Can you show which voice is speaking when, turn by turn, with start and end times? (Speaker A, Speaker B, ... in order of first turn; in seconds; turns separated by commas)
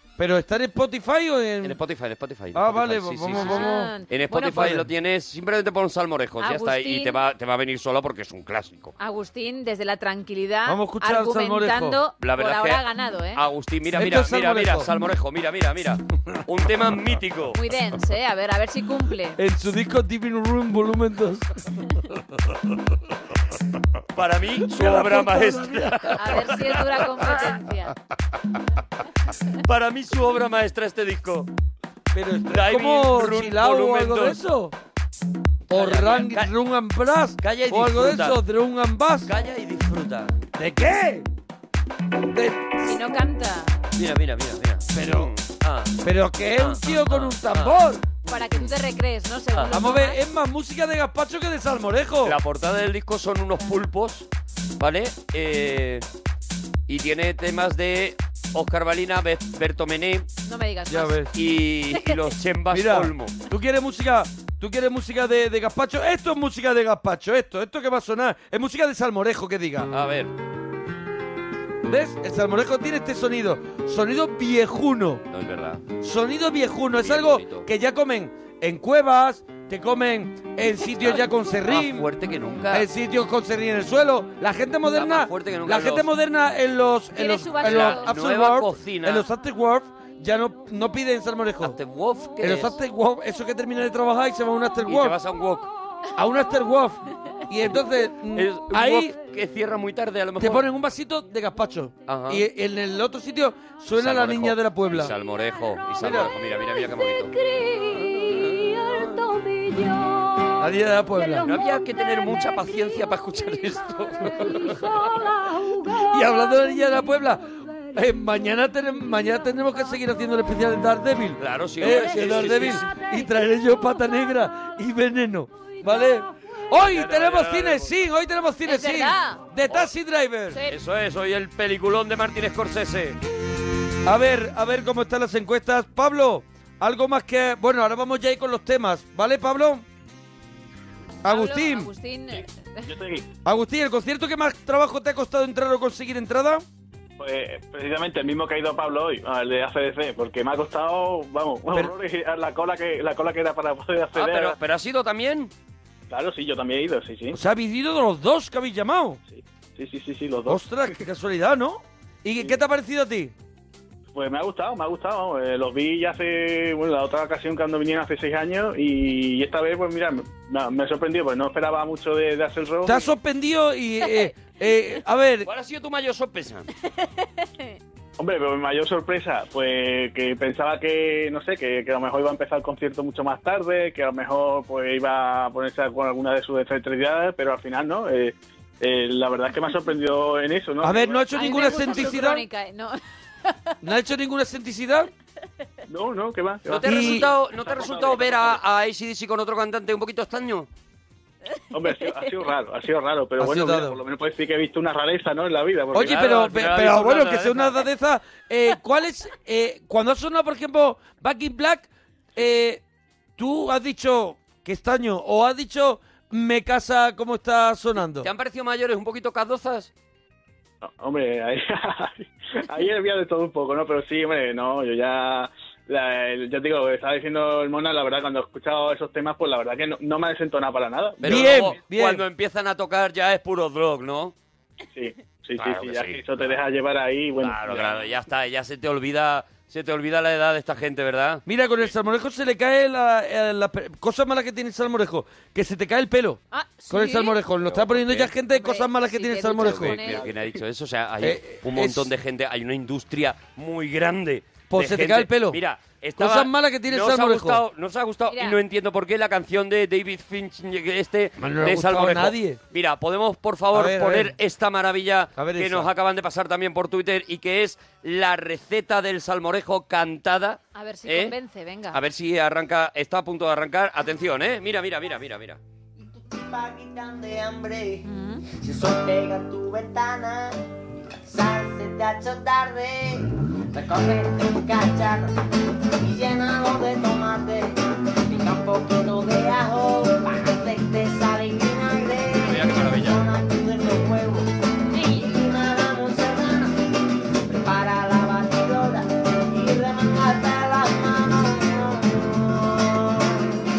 Speaker A: 0.2-1.8, Speaker B: 1.6-8.9, Speaker A: 2.5-4.9, Speaker C: 3.4-4.7, Speaker C: 6.4-7.2, Speaker C: 9.0-13.4, Speaker A: 10.7-12.0, Speaker B: 12.2-12.8, Speaker B: 13.3-17.6, Speaker A: 13.9-14.9, Speaker C: 17.5-19.4, Speaker A: 19.4-21.5, Speaker B: 24.1-26.8, Speaker A: 24.7-26.5, Speaker C: 26.1-28.0, Speaker B: 29.6-31.5, Speaker A: 32.1-34.7, Speaker B: 32.5-34.4, Speaker B: 35.7-36.5, Speaker A: 35.7-39.3, Speaker B: 37.4-38.4, Speaker B: 39.2-40.4, Speaker A: 40.6-41.3, Speaker A: 42.3-42.6, Speaker C: 42.8-43.8, Speaker B: 44.0-46.0, Speaker A: 44.9-45.3, Speaker A: 46.0-48.1, Speaker B: 46.6-47.8, Speaker C: 48.3-50.2, Speaker A: 49.7-52.4, Speaker B: 52.2-54.3, Speaker B: 54.8-56.0, Speaker B: 56.9-60.3, Speaker C: 60.5-61.2, Speaker A: 60.9-61.3, Speaker B: 61.3-63.4, Speaker A: 62.7-69.9, Speaker B: 69.9-70.3, Speaker A: 71.8-75.2, Speaker B: 75.3-75.8, Speaker A: 76.0-82.1, Speaker B: 77.0-77.7, Speaker B: 81.0-82.9, Speaker A: 82.7-91.8, Speaker B: 84.9-86.1, Speaker C: 87.2-88.1, Speaker B: 87.6-89.3, Speaker B: 91.6-92.8, Speaker A: 92.4-95.2, Speaker B: 94.9-95.7, Speaker A: 96.2-99.2, Speaker B: 98.3-100.6, Speaker A: 100.4-105.1, Speaker B: 102.1-102.5, Speaker B: 104.0-107.3, Speaker A: 106.0-106.3, Speaker B: 107.9-109.2, Speaker A: 110.6-111.5, Speaker B: 111.4-115.1, Speaker A: 115.9-130.6, Speaker B: 121.4-122.9, Speaker B: 126.7-127.9, Speaker C: 128.7-129.4, Speaker C: 130.5-130.8, Speaker B: 130.7-133.2, Speaker A: 134.1-139.8, Speaker A: 141.2-141.9, Speaker C: 141.2-142.9, Speaker D: 142.9-143.3, Speaker A: 143.4-146.6, Speaker D: 147.2-154.6, Speaker B: 154.1-155.5, Speaker D: 156.1-157.4, Speaker A: 157.3-159.2, Speaker D: 159.3-160.6, Speaker A: 160.5-163.3, Speaker D: 164.1-173.1, Speaker A: 172.8-175.5, Speaker B: 175.4-176.7, Speaker C: 177.1-177.8, Speaker D: 178.2-192.1, Speaker A: 190.8-192.4, Speaker C: 191.3-193.7, Speaker A: 193.8-195.1, Speaker D: 195.9-198.6, Speaker B: 196.7-200.7, Speaker A: 196.8-197.3, Speaker D: 201.7-206.5, Speaker A: 203.4-204.0, Speaker A: 205.9-212.8, Speaker B: 206.1-207.8, Speaker A: 213.4-218.3, Speaker B: 218.2-219.9, Speaker D: 220.8-231.7, Speaker B: 231.2-234.3, Speaker A: 231.2-232.2, Speaker D: 234.9-238.1, Speaker B: 235.6-236.6, Speaker B: 237.4-241.4, Speaker A: 241.5-250.0, Speaker C: 246.5-247.4, Speaker B: 247.7-248.3, Speaker C: 248.5-250.3, Speaker B: 249.5-271.4, Speaker A: 251.2-252.1, Speaker A: 254.7-255.6, Speaker A: 256.2-257.6, Speaker C: 258.3-258.6, Speaker A: 261.4-262.6, Speaker A: 263.7-264.3, Speaker A: 265.4-265.9, Speaker C: 270.8-272.0, Speaker B: 271.9-275.6, Speaker E: 276.0-280.6, Speaker C: 278.1-278.4, Speaker E: 281.2-285.4, Speaker E: 286.0-287.8, Speaker E: 288.3-296.7, Speaker B: 292.4-293.2, Speaker E: 297.5-303.5